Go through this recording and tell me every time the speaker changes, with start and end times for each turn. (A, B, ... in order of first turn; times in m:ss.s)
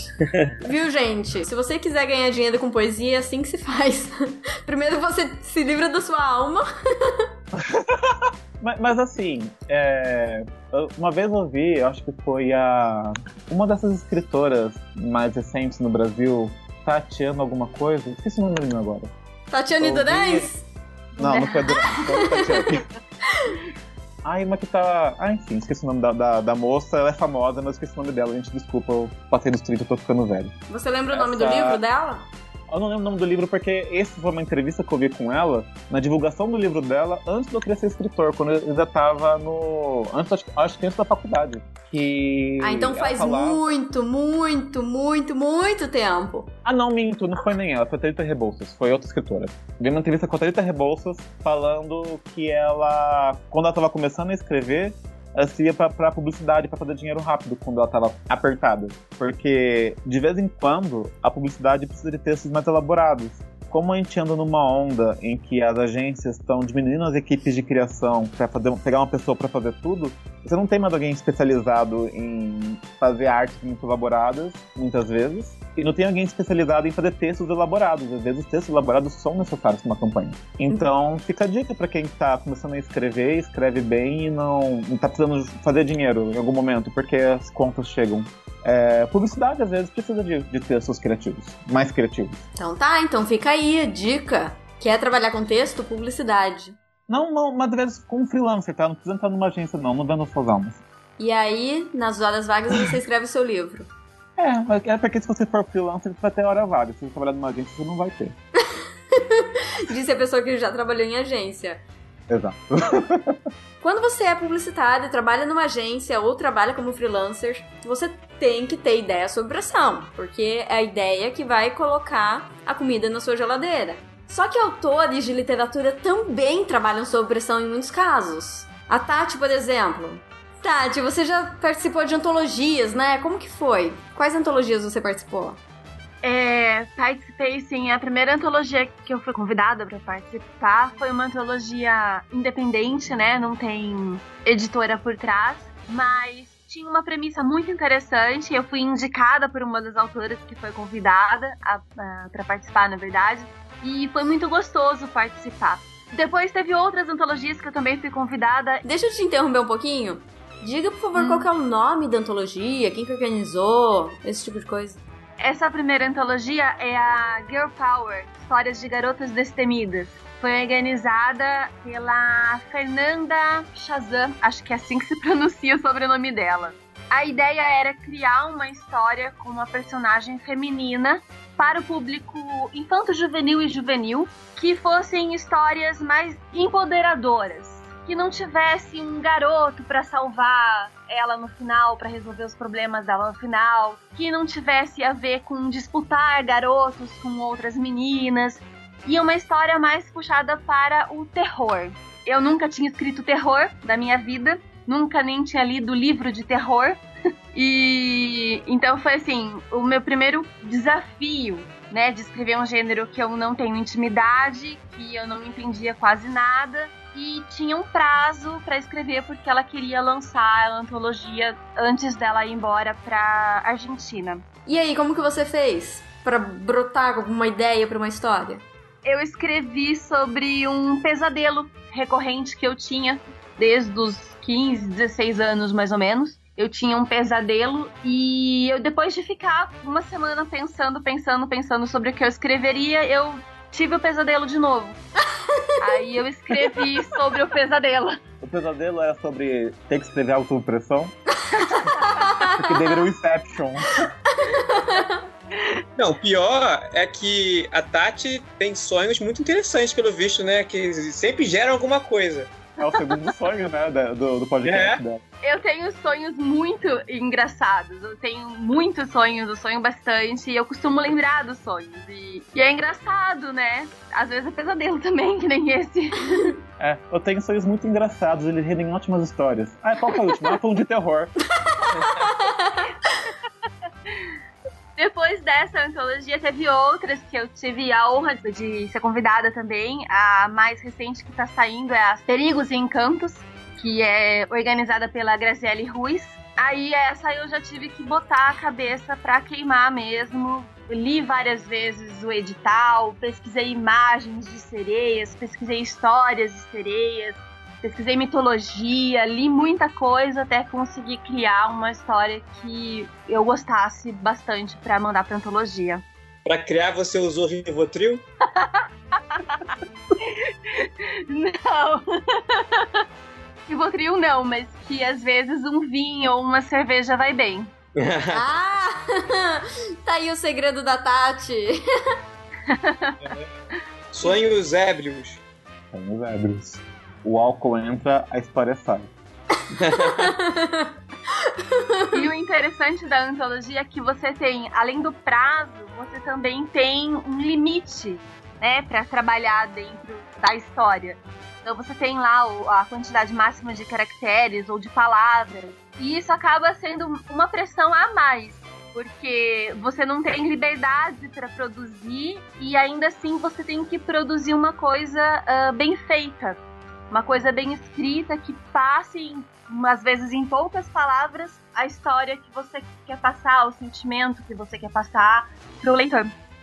0:00.2-0:00.5 A
0:00.6-0:07.2 B
0:07.6-0:19.1 C
0:19.5-0:20.7 B
0:19.8-0:20.5 C
0:21.2-0:22.4 D
0:21.2-0:22.8 C
0:21.8-0:22.6 B
0:23.3-0:23.6 B
0:24.2-0:30.5 C
0:30.7-0:32.3 B
0:31.1-0:31.8 C
0:32.7-0:43.6 C
0:42.6-0:46.5 B
0:46.6-1:32.4 C
1:32.6-1:36.8 B
1:37.1-1:40.8 C
1:41.2-1:43.9 B
1:44.4-1:48.4 C
1:49.1-1:51.8 B
1:52.3-1:53.4 C
1:53.8-2:15.6 B
2:16.2-2:38.8 D
2:38.8-2:45.0 B
2:41.2-2:41.5 D
2:45.4-3:27.0 D
3:27.5-3:44.4 D
3:44.7-3:48.6 B
3:49.0-4:05.0 D
4:05.8-4:08.2 D
4:08.4-4:11.1 C
4:11.6-4:12.7 B
4:12.6-4:14.1 C
4:14.3-4:15.2 B
4:16.0-4:22.5 A
4:22.8-4:25.2 C
4:24.6-4:25.0 A
4:25.4-4:36.6 D
4:36.8-4:41.4 C
4:41.7-4:42.8 B
4:45.0-5:16.0 D
5:16.4-5:18.2 A
5:18.4-5:19.6 D
5:20.2-5:23.0 D
5:23.7-5:27.7 D
5:28.0-5:28.4 A
5:28.3-5:31.8 B
5:32.7-5:33.3 D
5:34.1-5:35.4 A
5:35.9-5:39.1 C
5:39.7-5:40.4 A
5:40.0-5:42.2 B
5:42.1-6:16.3 D